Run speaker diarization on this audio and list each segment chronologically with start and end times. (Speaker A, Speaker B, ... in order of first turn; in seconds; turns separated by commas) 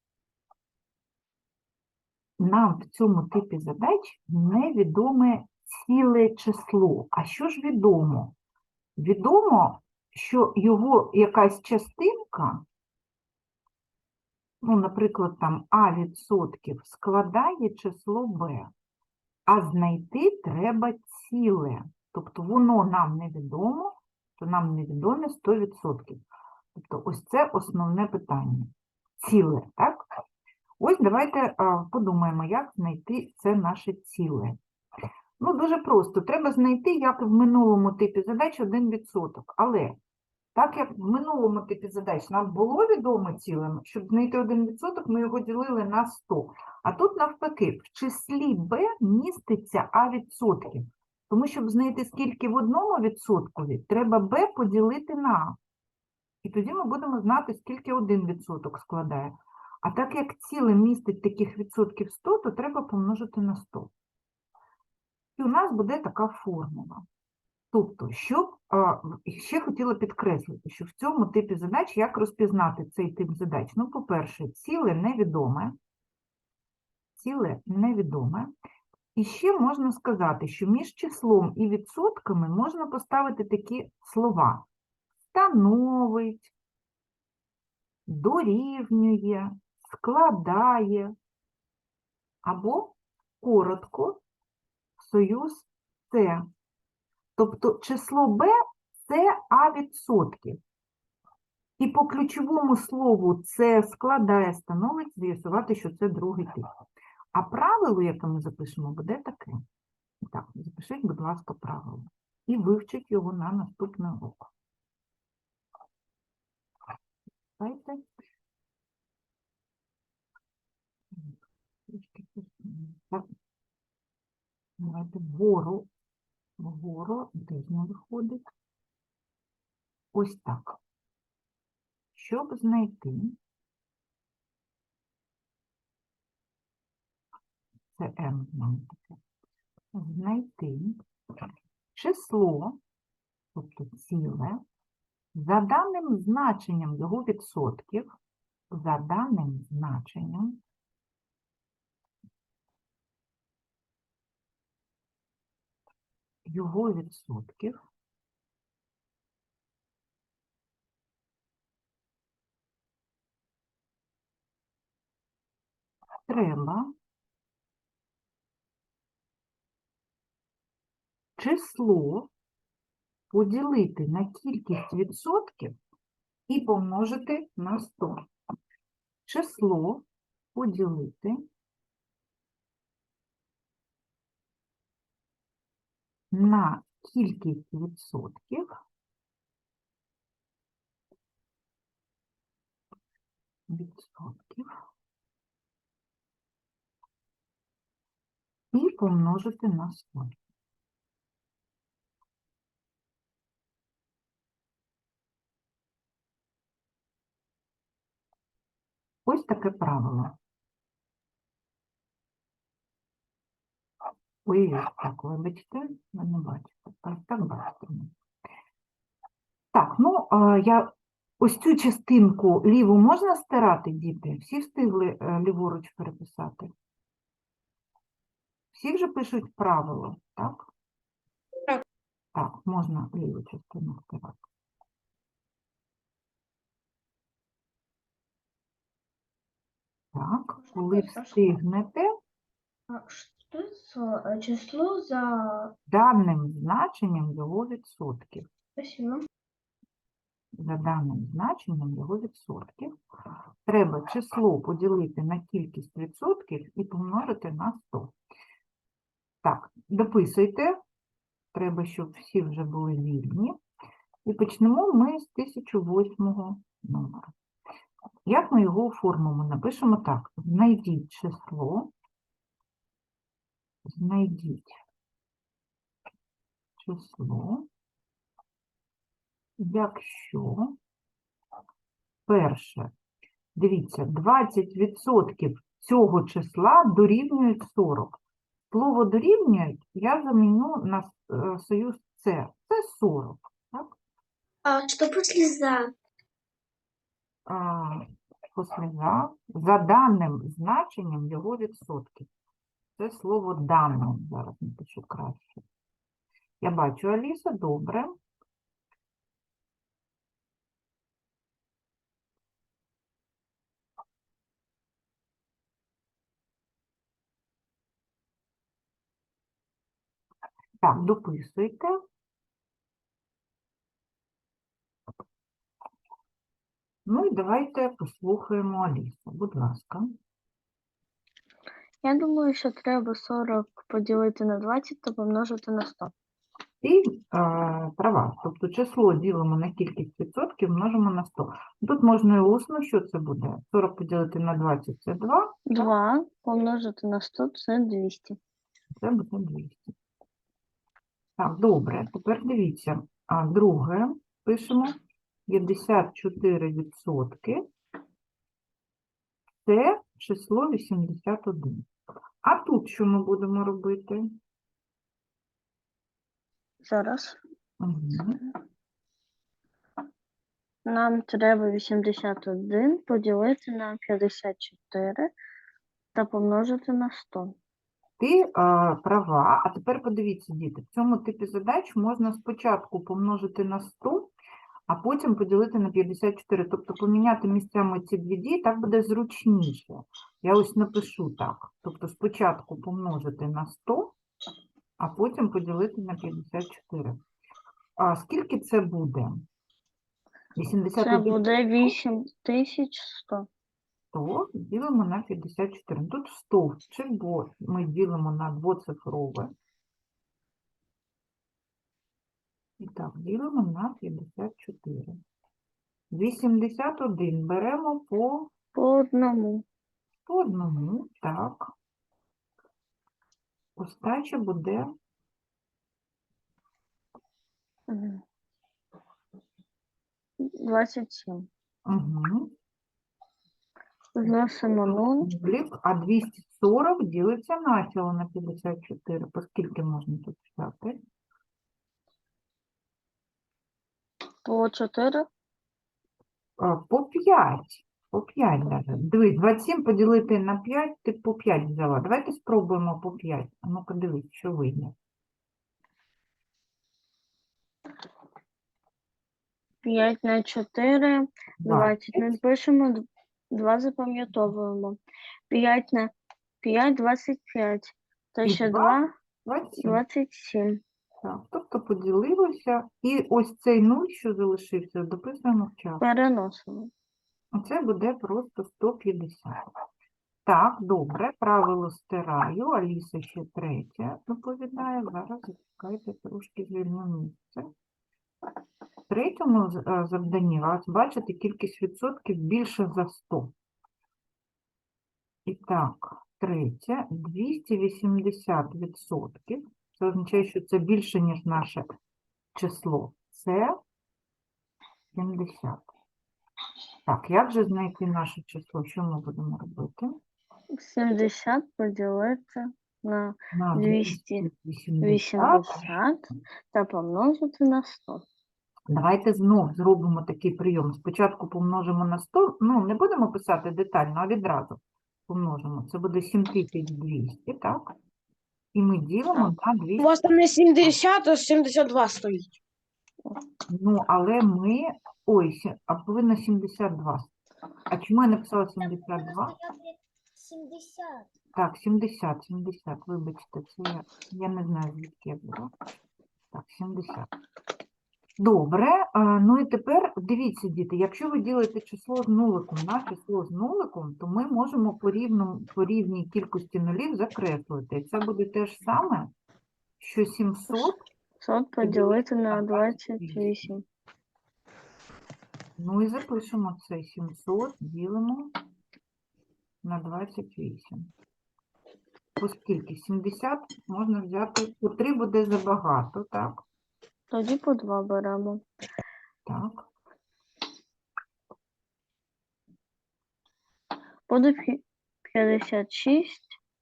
Speaker A: 2.4-8.3, Speaker A: 9.0-12.6, Speaker A: 14.6-18.7, Speaker A: 19.5-26.2, Speaker A: 26.8-30.1, Speaker A: 30.8-34.6, Speaker A: 35.4-40.0, Speaker A: 40.5-55.6, Speaker A: 56.4-63.9, Speaker A: 65.4-67.0, Speaker A: 67.7-75.8, Speaker A: 77.2-78.5, Speaker A: 79.2-84.7, Speaker A: 85.3-86.5, Speaker A: 88.1-91.1, Speaker A: 92.4-94.2, Speaker A: 95.0-96.5, Speaker A: 97.4-98.5, Speaker A: 99.1-100.6, Speaker A: 101.8-106.7, Speaker A: 107.3-109.6, Speaker A: 110.2-114.5, Speaker A: 117.6-118.0, Speaker A: 121.1-121.4, Speaker A: 121.9-123.3, Speaker A: 124.8-125.9, Speaker A: 126.6-128.4, Speaker A: 130.1-130.8, Speaker A: 132.2-133.4, Speaker A: 138.0-139.2, Speaker A: 139.9-141.0, Speaker A: 141.9-142.8, Speaker A: 143.5-144.6, Speaker A: 145.3-148.1, Speaker A: 148.7-150.6, Speaker A: 156.5-157.8, Speaker A: 166.3-166.9, Speaker A: 171.4-172.3, Speaker A: 173.3-175.8, Speaker A: 176.5-178.3, Speaker A: 179.3-181.4, Speaker A: 186.3-188.8, Speaker A: 193.7-194.7, Speaker A: 198.7-200.3, Speaker A: 209.3-210.3, Speaker A: 214.4-218.1, Speaker A: 219.7-226.7, Speaker A: 228.7-230.7, Speaker A: 232.3-234.4, Speaker A: 240.1-242.1, Speaker B: 240.6-241.5, Speaker B: 242.9-245.7, Speaker A: 245.9-248.5, Speaker B: 248.8-249.2, Speaker A: 250.5-252.9, Speaker A: 253.7-258.1, Speaker A: 259.4-260.8, Speaker A: 261.5-263.6, Speaker A: 264.3-267.3, Speaker A: 268.3-271.9, Speaker A: 273.9-274.8, Speaker A: 276.8-277.7, Speaker A: 279.6-280.8, Speaker A: 282.3-282.9, Speaker A: 283.6-288.2, Speaker A: 288.7-293.9, Speaker C: 294.6-295.9, Speaker A: 297.5-302.3, Speaker A: 303.0-305.6, Speaker A: 306.6-308.2, Speaker A: 320.8-322.0, Speaker A: 327.1-330.1, Speaker D: 332.0-336.1, Speaker A: 336.8-345.6, Speaker D: 345.7-348.4, Speaker A: 349.0-349.9, Speaker A: 351.4-355.0, Speaker A: 355.5-357.6, Speaker A: 359.6-361.9, Speaker A: 362.4-364.3, Speaker D: 366.8-367.4, Speaker A: 367.8-368.4, Speaker D: 368.1-368.5, Speaker D: 370.9-375.3, Speaker D: 376.1-377.6, Speaker A: 378.2-384.3, Speaker A: 384.9-394.2, Speaker A: 395.0-397.2, Speaker A: 398.0-399.5, Speaker A: 400.6-401.4, Speaker D: 401.0-403.5, Speaker A: 404.1-409.5, Speaker A: 412.8-415.2, Speaker A: 416.1-418.5, Speaker D: 418.8-419.6, Speaker A: 420.3-421.7, Speaker A: 423.8-424.9, Speaker D: 427.9-428.2, Speaker D: 430.4-431.5, Speaker A: 431.9-432.5, Speaker D: 434.2-435.3, Speaker A: 435.2-441.0, Speaker D: 444.4-445.3, Speaker A: 446.6-454.9, Speaker D: 459.8-465.0, Speaker A: 461.6-462.3, Speaker D: 465.5-469.1, Speaker A: 468.4-470.0, Speaker D: 469.8-470.8, Speaker A: 471.2-476.0, Speaker D: 476.0-476.9, Speaker A: 477.5-479.6, Speaker A: 480.5-487.7, Speaker A: 489.1-493.5, Speaker A: 495.5-501.9, Speaker A: 502.6-503.8, Speaker A: 505.1-505.9, Speaker A: 507.1-510.2, Speaker D: 510.7-514.5, Speaker A: 513.5-515.9, Speaker D: 515.0-518.2, Speaker A: 518.9-527.9, Speaker A: 528.7-530.1, Speaker E: 530.0-532.5, Speaker A: 533.7-537.3, Speaker A: 537.9-539.5, Speaker C: 538.9-541.3, Speaker A: 541.5-545.7, Speaker A: 546.5-547.3, Speaker A: 548.4-559.3, Speaker A: 560.0-561.0, Speaker D: 561.4-563.8, Speaker A: 561.8-563.5, Speaker A: 565.8-568.5, Speaker A: 569.8-571.1, Speaker A: 572.4-576.6, Speaker D: 577.3-578.6, Speaker A: 579.5-579.9, Speaker D: 584.3-586.6